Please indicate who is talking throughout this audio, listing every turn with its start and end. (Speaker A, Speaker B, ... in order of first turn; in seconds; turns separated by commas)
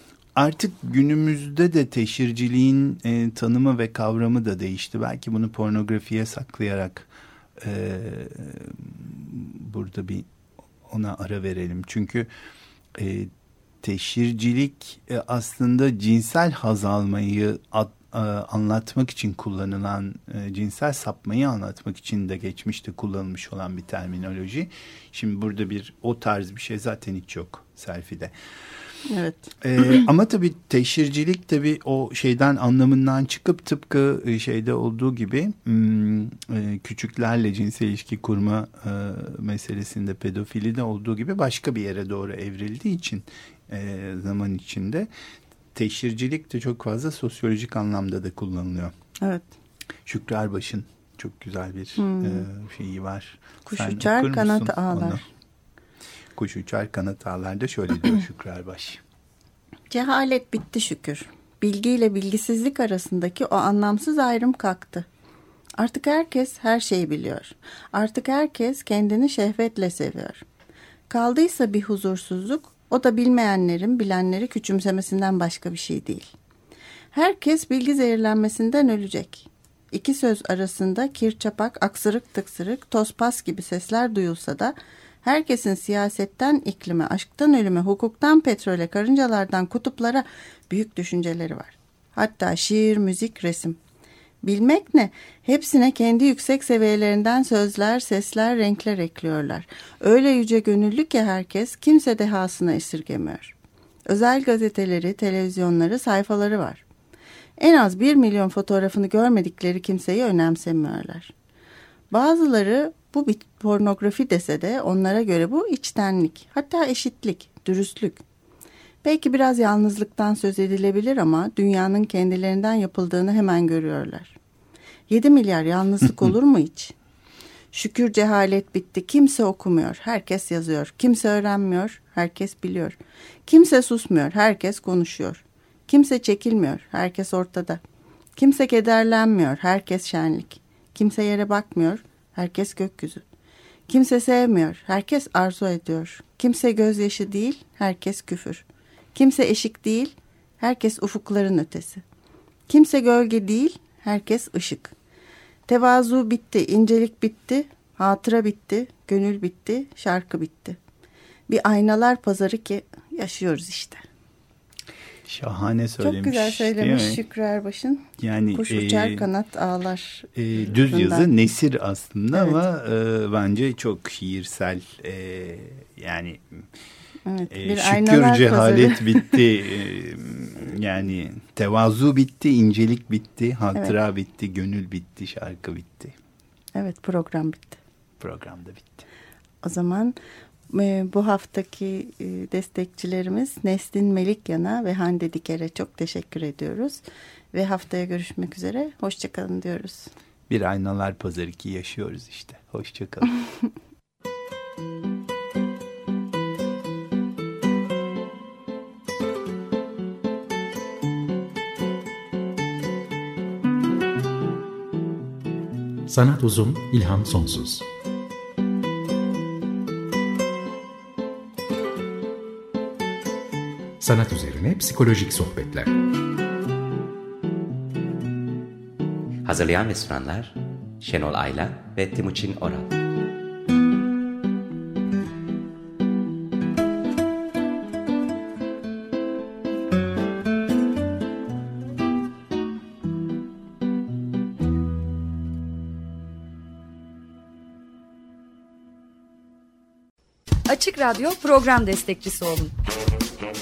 Speaker A: 0.3-10.3, Speaker A: 10.8-12.3, Speaker A: 13.0-13.3, Speaker A: 13.8-28.3, Speaker B: 29.1-29.5, Speaker A: 29.6-45.1, Speaker A: 45.8-48.9, Speaker B: 49.2-49.5, Speaker A: 50.1-55.2, Speaker B: 52.0-52.5, Speaker B: 53.6-55.2, Speaker A: 56.4-59.0, Speaker B: 59.9-65.1, Speaker B: 65.8-70.4, Speaker B: 71.1-76.3, Speaker B: 77.1-93.8, Speaker B: 94.4-103.5, Speaker B: 104.1-106.8, Speaker B: 107.6-111.3, Speaker B: 112.1-118.2, Speaker B: 119.0-124.3, Speaker B: 125.1-126.9, Speaker B: 127.7-137.8, Speaker B: 138.4-143.2, Speaker B: 143.9-152.0, Speaker B: 152.7-154.9, Speaker B: 155.7-160.8, Speaker B: 161.5-164.0, Speaker A: 165.3-167.2, Speaker B: 166.0-171.3, Speaker A: 168.2-169.3, Speaker A: 170.4-176.7, Speaker B: 177.3-179.4, Speaker A: 177.5-186.2, Speaker B: 186.8-187.8, Speaker A: 188.2-189.1, Speaker B: 189.6-190.2, Speaker B: 190.7-197.0, Speaker B: 197.5-200.1, Speaker A: 200.5-203.3, Speaker C: 216.1-217.9, Speaker C: 224.0-225.9, Speaker D: 229.4-232.9, Speaker E: 250.7-252.7